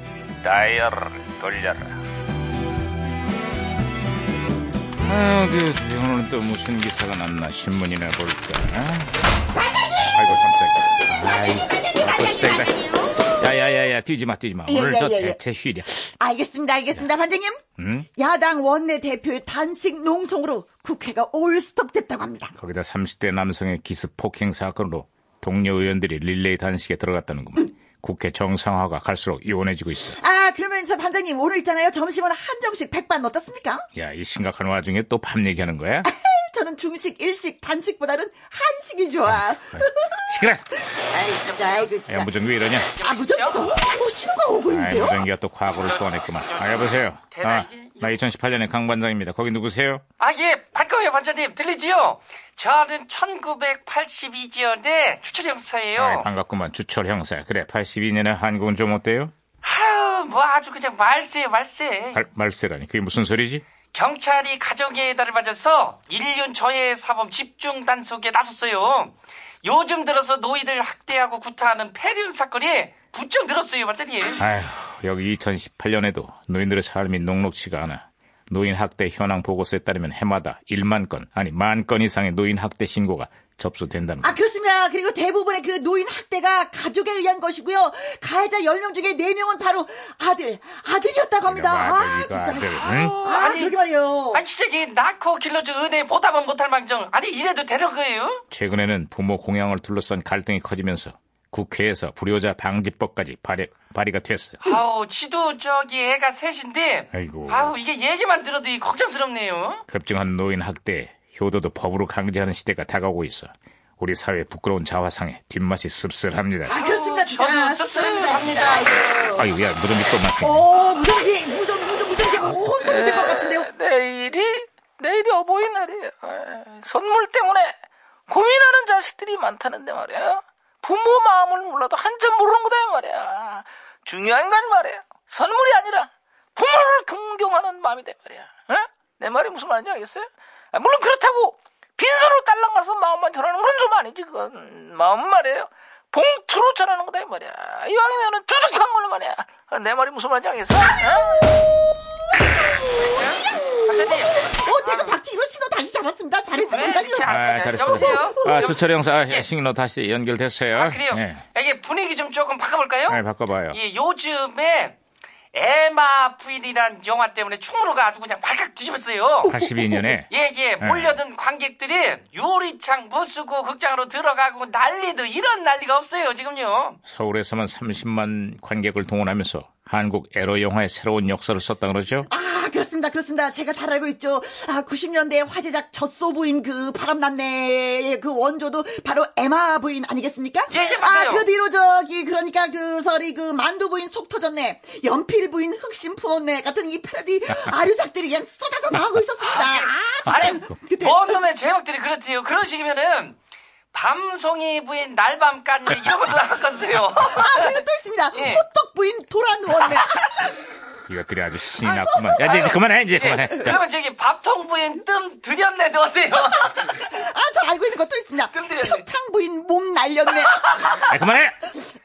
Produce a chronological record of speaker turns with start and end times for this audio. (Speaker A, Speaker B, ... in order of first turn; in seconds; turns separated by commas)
Speaker A: 0.4-2.0, Speaker A: 5.0-9.2, Speaker B: 9.6-10.1, Speaker A: 10.1-15.9, Speaker B: 11.1-13.4, Speaker B: 14.7-15.4, Speaker B: 16.0-17.6, Speaker A: 17.8-18.1, Speaker B: 18.2-22.6, Speaker A: 22.6-30.2, Speaker B: 30.1-33.9, Speaker A: 34.0-36.1, Speaker B: 36.0-40.3, Speaker A: 39.3-40.7, Speaker B: 40.9-42.3, Speaker C: 41.3-41.9, Speaker A: 42.0-43.0, Speaker C: 42.8-43.8, Speaker B: 43.0-45.2, Speaker A: 44.7-50.0, Speaker C: 45.8-48.2, Speaker C: 50.2-56.3, Speaker A: 56.0-59.3, Speaker C: 59.6-62.2, Speaker A: 62.1-63.6, Speaker C: 63.9-74.5, Speaker A: 74.4-84.4, Speaker B: 84.2-94.4, Speaker A: 91.4-93.2, Speaker C: 92.6-93.8, Speaker C: 94.3-98.4, Speaker A: 98.5-104.6, Speaker C: 104.6-109.8, Speaker A: 107.1-107.7, Speaker A: 109.9-116.8, Speaker B: 116.7-119.5, Speaker C: 116.7-119.2, Speaker A: 119.3-120.7, Speaker B: 120.4-123.7, Speaker D: 122.8-127.8, Speaker D: 128.3-151.5, Speaker B: 153.0-157.3, Speaker C: 153.0-155.2, Speaker C: 156.6-159.5, Speaker A: 157.2-161.4, Speaker B: 157.9-158.7, Speaker C: 160.7-165.0, Speaker A: 163.1-163.8, Speaker C: 165.5-169.6, Speaker A: 169.5-170.3, Speaker B: 169.5-170.0, Speaker C: 170.2-177.0, Speaker A: 170.8-171.2, Speaker A: 177.1-182.3, Speaker B: 182.3-201.4, Speaker C: 190.7-191.5, Speaker C: 199.4-203.4, Speaker A: 200.3-200.6, Speaker C: 203.9-207.8, Speaker B: 207.2-210.5, Speaker C: 208.3-208.6, Speaker A: 211.1-213.8, Speaker C: 211.8-217.1, Speaker B: 216.7-221.2, Speaker C: 218.5-219.0, Speaker A: 220.9-221.7